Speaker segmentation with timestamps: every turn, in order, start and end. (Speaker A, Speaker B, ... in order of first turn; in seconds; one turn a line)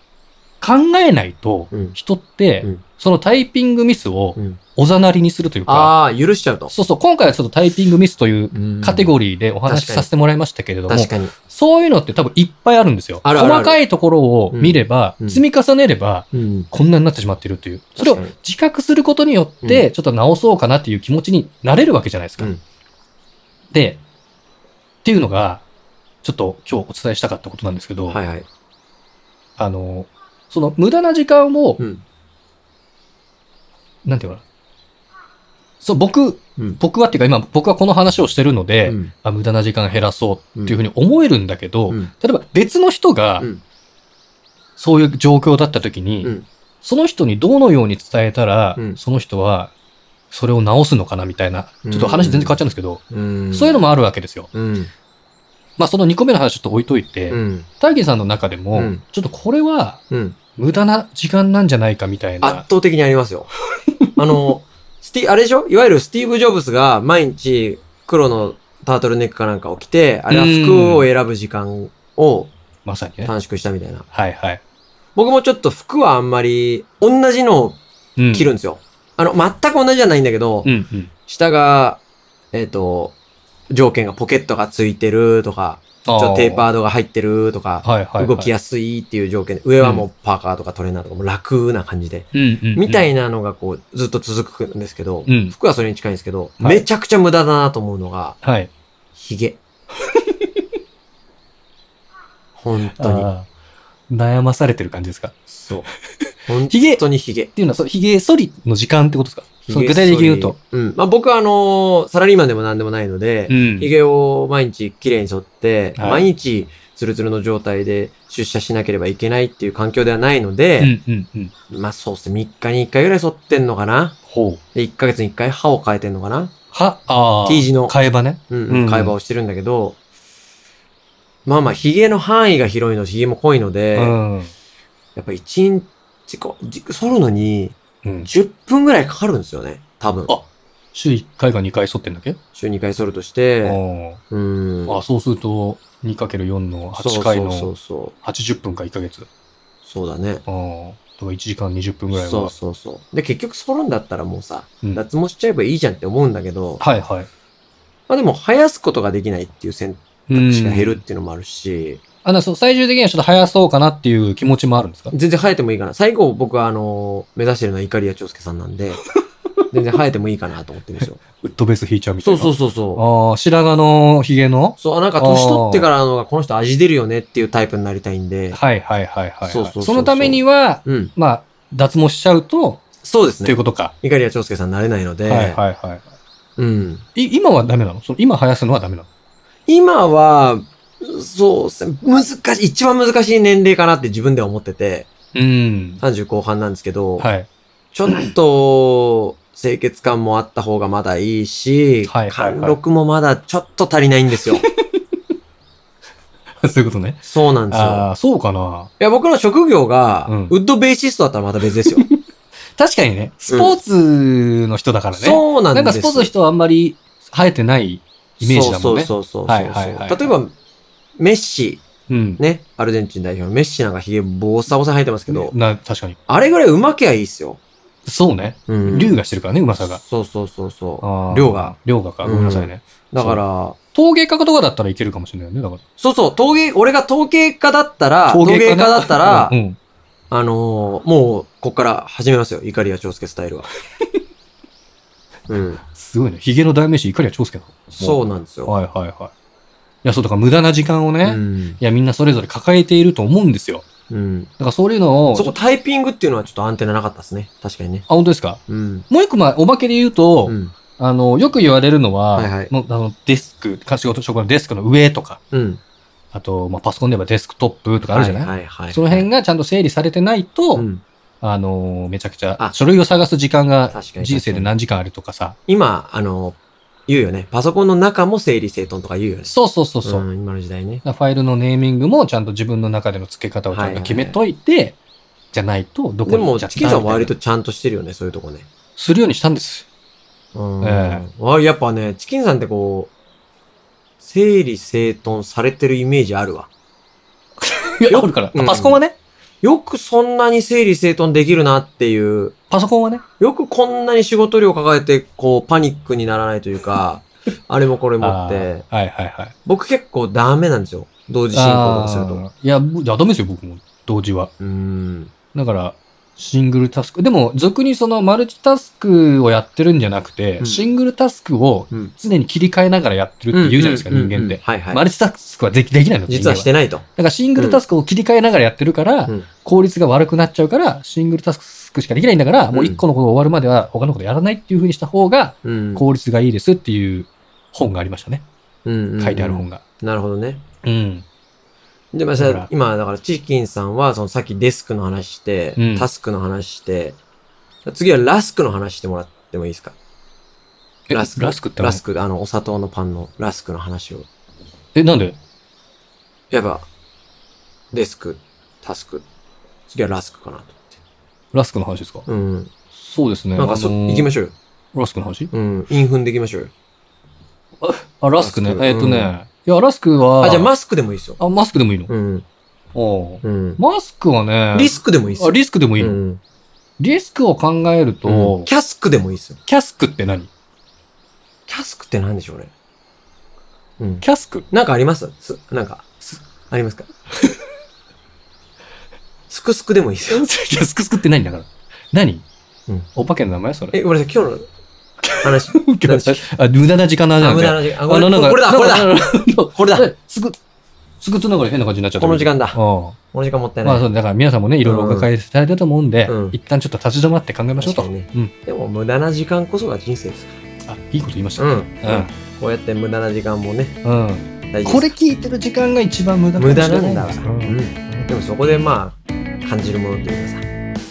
Speaker A: 0.6-5.9
Speaker B: 1.7-2.0
Speaker B: 5.7-6.7
Speaker A: 6.7-22.5
Speaker B: 8.5-9.1
Speaker B: 9.7-10.1
Speaker B: 10.9-11.3
Speaker B: 13.2-13.8
Speaker B: 14.5-15.4
Speaker B: 16.3-16.7
Speaker B: 18.0-18.3
Speaker A: 23.7-24.0
Speaker A: 25.0-25.6
Speaker A: 26.2-28.2
Speaker B: 28.1-28.5
Speaker A: 29.6-31.8
Speaker A: 34.0-34.4
Speaker A: 35.8-43.5
Speaker B: 38.9-39.1
Speaker A: 44.8-49.7
Speaker A: 50.3-53.0
Speaker B: 51.8-52.6
Speaker B: 53.1-53.9
Speaker A: 53.5-54.5
Speaker B: 54.5-54.9
Speaker A: 55.8-60.0
Speaker B: 57.3-57.7
Speaker B: 58.7-59.0
Speaker B: 60.1-60.4
Speaker A: 60.6-62.6
Speaker B: 62.4-63.5
Speaker B: 64.2-72.5
Speaker A: 70.3-71.1
Speaker A: 72.8-73.3
Speaker B: 73.2-74.1
Speaker A: 74.1-74.6
Speaker B: 75.2-80.7
Speaker A: 78.2-78.5
Speaker A: 80.7-81.1
Speaker B: 81.3-82.0
Speaker B: 82.5-83.2
Speaker B: 83.7-98.4
Speaker A: 86.0-86.7
Speaker A: 87.8-88.5
Speaker A: 92.3-93.0
Speaker A: 95.3-95.5
Speaker A: 98.4-98.7
Speaker B: 99.2-99.6
Speaker B: 102.6-103.3
Speaker A: 103.0-103.5
Speaker A: 104.1-105.3
Speaker B: 105.5-105.9
Speaker B: 106.5-107.5
Speaker A: 106.7-107.0
Speaker A: 107.5-110.6
Speaker B: 109.7-120.9
Speaker A: 113.5-113.9
Speaker A: 116.0-116.3
Speaker A: 120.8-121.5
Speaker B: 121.7-124.2
Speaker A: 124.3-124.6
Speaker B: 124.8-126.5
Speaker A: 126.7-129.2
Speaker B: 127.5-128.0
Speaker B: 128.5-130.0
Speaker B: 131.5-134.2
Speaker A: 134.0-134.5
Speaker B: 135.2-140.3
Speaker A: 138.0-138.3
Speaker A: 140.3-142.4
Speaker B: 142.6-143.8
Speaker A: 143.6-144.2
Speaker B: 144.3-145.0
Speaker A: 144.9-147.7
Speaker B: 146.9-148.2
Speaker A: 148.2-149.3
Speaker B: 149.8-150.4
Speaker A: 150.5-152.5
Speaker B: 152.1-156.8
Speaker A: 156.8-157.3
Speaker B: 158.1-162.0
Speaker A: 160.3-161.0
Speaker A: 162.2-165.1
Speaker B: 165.1-169.0
Speaker B: 169.7-171.2
Speaker A: 171.0-175.9
Speaker B: 172.2-173.0
Speaker B: 174.8-178.6
Speaker A: 178.5-182.8
Speaker B: 179.5-181.1
Speaker B: 183.0-185.6
Speaker A: 183.4-183.9
Speaker A: 185.3-186.0
Speaker B: 186.6-187.1
Speaker A: 187.2-189.1
Speaker B: 189.7-195.1
Speaker A: 195.3-196.0
Speaker B: 196.0-197.3
Speaker A: 197.2-197.5
Speaker B: 197.9-204.7
Speaker A: 198.1-198.3
Speaker A: 202.1-202.8
Speaker A: 204.6-205.0
Speaker A: 206.6-208.9
Speaker B: 207.2-208.1
Speaker B: 209.0-212.1
Speaker A: 210.3-210.5
Speaker A: 212.0-212.2
Speaker A: 212.8-220.3
Speaker B: 213.5-213.8
Speaker B: 215.1-216.3
Speaker B: 218.4-220.5
Speaker B: 221.2-221.8
Speaker A: 222.1-222.4
Speaker B: 222.4-225.6
Speaker A: 225.3-226.2
Speaker B: 226.3-227.6
Speaker A: 228.1-230.0
Speaker B: 228.7-229.2
Speaker B: 229.8-233.8
Speaker A: 231.0-233.4
Speaker A: 233.9-235.8
Speaker B: 236.0-239.6
Speaker A: 238.3-239.8
Speaker B: 240.3-243.7
Speaker B: 245.5-245.8
Speaker A: 245.9-249.3
Speaker B: 247.9-248.7
Speaker A: 250.0-253.8
Speaker B: 251.2-251.8
Speaker B: 254.1-254.5
Speaker A: 254.6-255.6
Speaker B: 255.3-258.1
Speaker A: 258.1-265.4
Speaker B: 258.7-259.1
Speaker B: 260.5-260.8
Speaker B: 262.3-262.7
Speaker B: 265.5-265.8
Speaker A: 266.3-270.9
Speaker B: 268.1-269.3
Speaker B: 270.7-271.0
Speaker A: 271.4-275.6
Speaker B: 273.9-274.7
Speaker B: 275.7-279.5
Speaker A: 279.5-280.3
Speaker B: 280.1-281.0
Speaker A: 281.0-285.0
Speaker B: 283.7-284.4
Speaker A: 285.5-287.3
Speaker B: 286.3-288.7
Speaker A: 289.0-289.9
Speaker B: 290.5-293.1
Speaker A: 290.8-291.2
Speaker B: 294.2-296.7
Speaker A: 297.6-299.2
Speaker B: 298.1-299.0
Speaker B: 299.6-302.6
Speaker A: 302.7-303.2
Speaker B: 303.4-308.8
Speaker A: 308.2-309.5
Speaker B: 309.7-312.4
Speaker A: 311.5-314.5
Speaker B: 314.6-315.3
Speaker A: 315.5-338.4
Speaker B: 320.6-320.9
Speaker B: 323.5-325.0
Speaker B: 326.3-327.1
Speaker B: 327.6-327.8
Speaker B: 332.7-333.0
Speaker B: 335.6-336.1
Speaker B: 338.9-340.6
Speaker A: 339.2-339.8
Speaker A: 340.8-341.2
Speaker B: 342.1-347.2
Speaker A: 342.4-342.7
Speaker A: 345.8-346.1
Speaker B: 347.9-350.0
Speaker A: 351.1-352.0
Speaker B: 351.1-354.3
Speaker A: 354.9-355.4
Speaker B: 356.5-356.9
Speaker B: 357.9-359.2
Speaker B: 359.9-361.0
Speaker A: 361.5-362.3
Speaker B: 362.3-362.7
Speaker A: 363.0-364.3
Speaker B: 363.6-364.6
Speaker A: 364.9-365.5
Speaker B: 365.5-366.7
Speaker A: 367.8-370.7
Speaker B: 368.4-369.4
Speaker B: 370.4-371.4
Speaker A: 371.4-372.1
Speaker B: 372.1-372.4
Speaker A: 372.9-376.2
Speaker B: 373.4-373.8
Speaker B: 374.7-376.4
Speaker A: 377.0-378.7
Speaker B: 378.3-379.6
Speaker A: 379.7-380.5
Speaker B: 381.7-382.7
Speaker B: 384.0-387.1
Speaker A: 384.2-384.7
Speaker B: 389.5-390.5
Speaker A: 390.3-392.4
Speaker A: 393.1-394.0
Speaker B: 393.9-394.7
Speaker A: 395.2-400.6
Speaker B: 395.4-396.5
Speaker B: 397.4-400.1
Speaker A: 401.2-403.2
Speaker B: 402.2-402.8
Speaker B: 403.3-404.1
Speaker A: 403.8-408.5
Speaker B: 404.8-405.3
Speaker B: 406.3-406.6
Speaker B: 407.8-410.5
Speaker A: 410.9-412.3
Speaker B: 411.6-414.0
Speaker A: 414.0-418.3
Speaker B: 414.7-415.1
Speaker B: 416.6-420.6